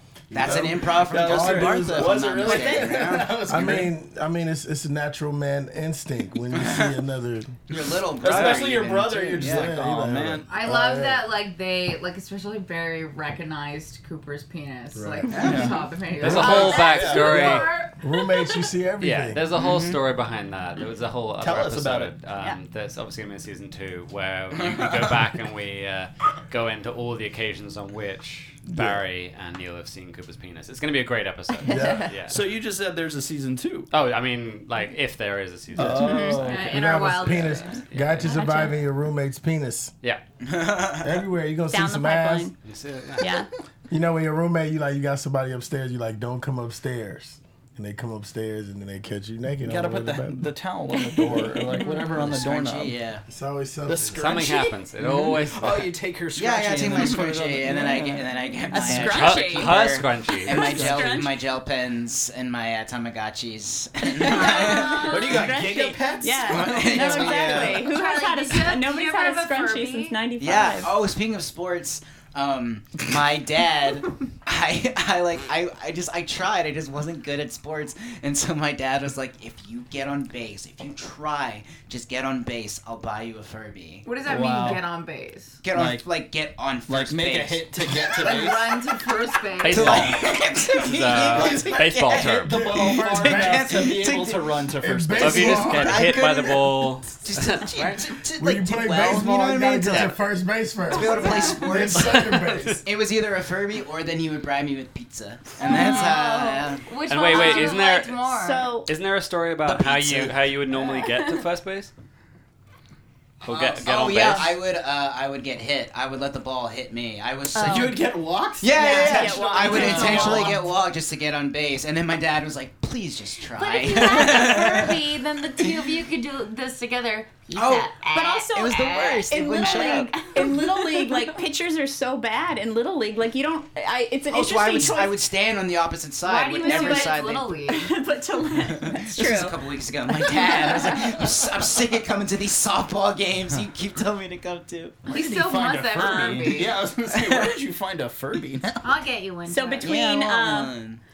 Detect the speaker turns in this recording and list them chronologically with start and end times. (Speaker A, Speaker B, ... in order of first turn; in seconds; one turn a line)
Speaker A: 0.3-7.6
Speaker B: 0.3-3.8
Speaker C: 0.4-3.9
Speaker B: 6.5-6.9
Speaker B: 7.7-9.8
Speaker C: 8.2-10.5
Speaker A: 8.2-8.6
Speaker A: 9.3-11.2
Speaker D: 10.5-18.6
Speaker A: 14.9-15.6
Speaker C: 15.3-17.6
Speaker E: 16.2-17.7
Speaker A: 18.0-19.4
Speaker E: 19.0-32.4
Speaker B: 19.5-20.0
Speaker C: 21.4-22.1
Speaker A: 28.7-29.0
Speaker F: 31.7-32.0
Speaker A: 31.7-32.1
Speaker C: 32.3-33.9
Speaker E: 33.9-36.6
Speaker C: 35.8-37.2
Speaker F: 36.0-36.4
Speaker D: 36.4-37.8
Speaker A: 36.6-39.9
Speaker E: 37.5-38.4
Speaker F: 38.3-38.8
Speaker B: 40.4-41.2
Speaker A: 41.0-42.5
Speaker F: 41.7-42.5
Speaker E: 42.6-43.3
Speaker F: 43.2-43.5
Speaker A: 43.9-50.5
Speaker C: 49.6-53.0
Speaker F: 50.9-52.1
Speaker B: 51.9-53.2
Speaker A: 53.3-54.3
Speaker C: 53.9-59.3
Speaker E: 54.1-55.9
Speaker B: 56.3-65.5
Speaker F: 58.7-61.4
Speaker E: 59.1-60.6
Speaker C: 60.5-61.2
Speaker F: 64.2-70.9
Speaker D: 64.5-65.3
Speaker C: 64.8-67.6
Speaker B: 66.4-67.9
Speaker D: 67.4-70.2
Speaker B: 70.4-84.1
Speaker D: 84.0-85.6
Speaker C: 84.2-84.8
Speaker B: 85.6-88.5
Speaker C: 85.7-86.0
Speaker C: 86.9-88.7
Speaker D: 88.1-90.1
Speaker E: 89.6-92.5
Speaker B: 89.6-94.6
Speaker C: 89.8-90.3
Speaker C: 91.0-95.7
Speaker A: 92.5-94.0
Speaker A: 94.8-96.2
Speaker E: 95.2-98.1
Speaker B: 95.2-100.2
Speaker A: 98.4-102.8
Speaker B: 100.9-106.9
Speaker D: 101.2-101.5
Speaker E: 101.8-102.8
Speaker D: 105.6-108.7
Speaker F: 105.6-106.6
Speaker E: 107.1-108.2
Speaker F: 107.3-107.8
Speaker F: 108.3-108.9
Speaker E: 108.8-111.9
Speaker B: 109.6-110.4
Speaker E: 113.4-114.6
Speaker B: 113.5-125.0
Speaker F: 117.5-117.9
Speaker C: 117.6-120.6
Speaker F: 118.7-120.6
Speaker D: 119.5-120.5
Speaker D: 123.5-131.2
Speaker F: 124.2-124.5
Speaker B: 127.5-130.3
Speaker F: 128.1-135.2
Speaker B: 134.3-137.6
Speaker D: 136.2-137.9
Speaker F: 136.6-137.2
Speaker F: 137.7-141.3
Speaker B: 138.7-145.1
Speaker C: 145.1-148.9
Speaker D: 145.1-146.9
Speaker F: 146.0-146.5
Speaker B: 147.1-147.5
Speaker D: 148.8-150.1
Speaker F: 149.5-150.8
Speaker B: 149.8-151.0